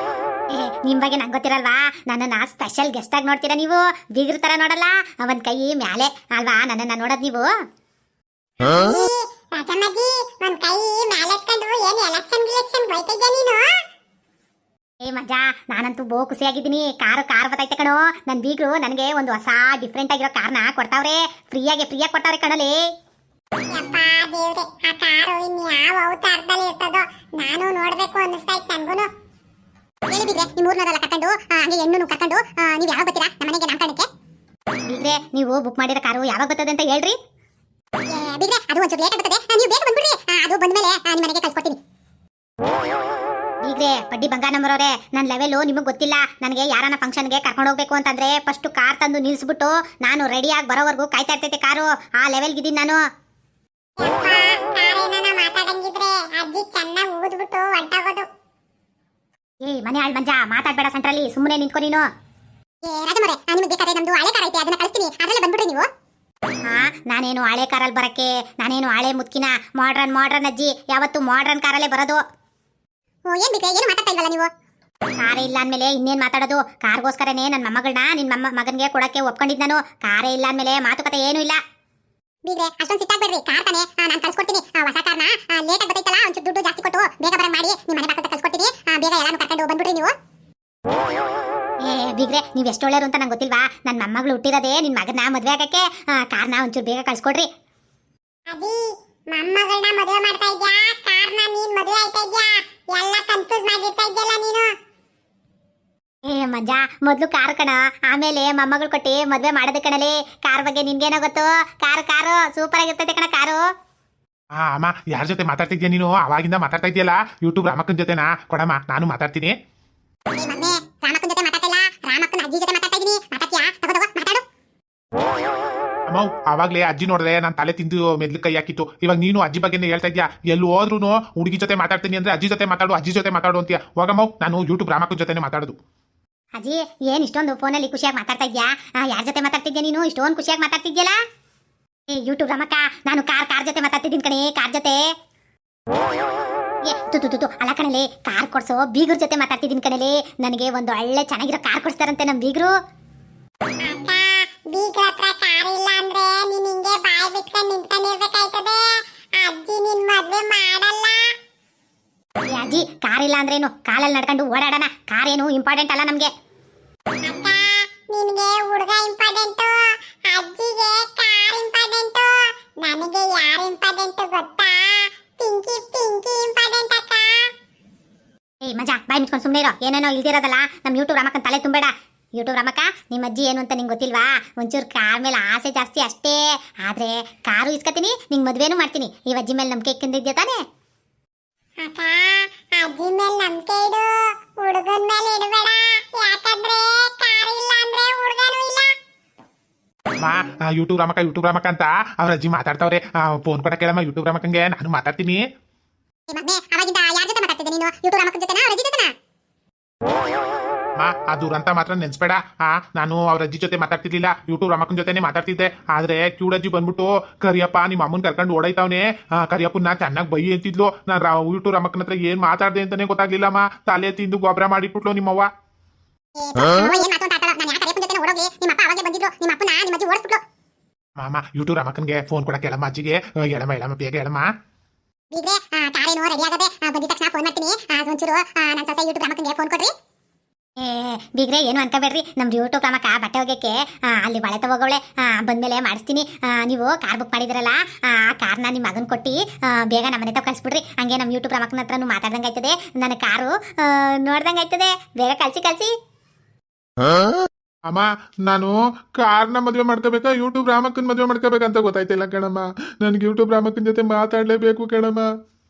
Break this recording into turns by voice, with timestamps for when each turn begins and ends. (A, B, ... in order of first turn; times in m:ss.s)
0:00.5-0:07.5 A
0:08.6-0:13.7 B
0:15.0-0:22.8 A
0:23.7-0:29.1 B
0:30.1-0:34.1 B
0:34.9-0:37.2 A
0:38.1-0:41.8 B
0:43.6-0:53.0 A
0:54.0-0:58.3 B
0:59.6-1:02.1 A
1:02.8-1:05.9 B
1:06.7-1:12.2 A
1:13.3-1:14.5 B
1:15.2-1:21.6 A
1:22.4-1:30.1 B
1:31.8-1:37.5 A
1:38.5-1:38.8 B
1:39.3-1:44.7 B
1:46.2-1:53.6 A
1:54.6-1:59.5 C
2:00.4-2:04.4 B
2:06.1-2:15.8 C
2:16.6-2:21.2 A
2:22.1-2:25.0 A
2:26.9-2:32.7 A
2:33.8-2:38.8 B
2:39.4-2:41.2 B
2:42.5-2:46.3 A
2:47.2-2:57.5 B
2:58.6-3:10.6 A
3:11.8-3:18.9 B
3:20.2-3:25.4 C
3:26.3-3:29.1 B
3:31.0-3:45.5 C
3:46.4-3:50.4 B
3:51.2-3:54.5 C
3:55.3-3:59.9 B
4:00.8-4:15.9 A
4:17.9-4:25.3 C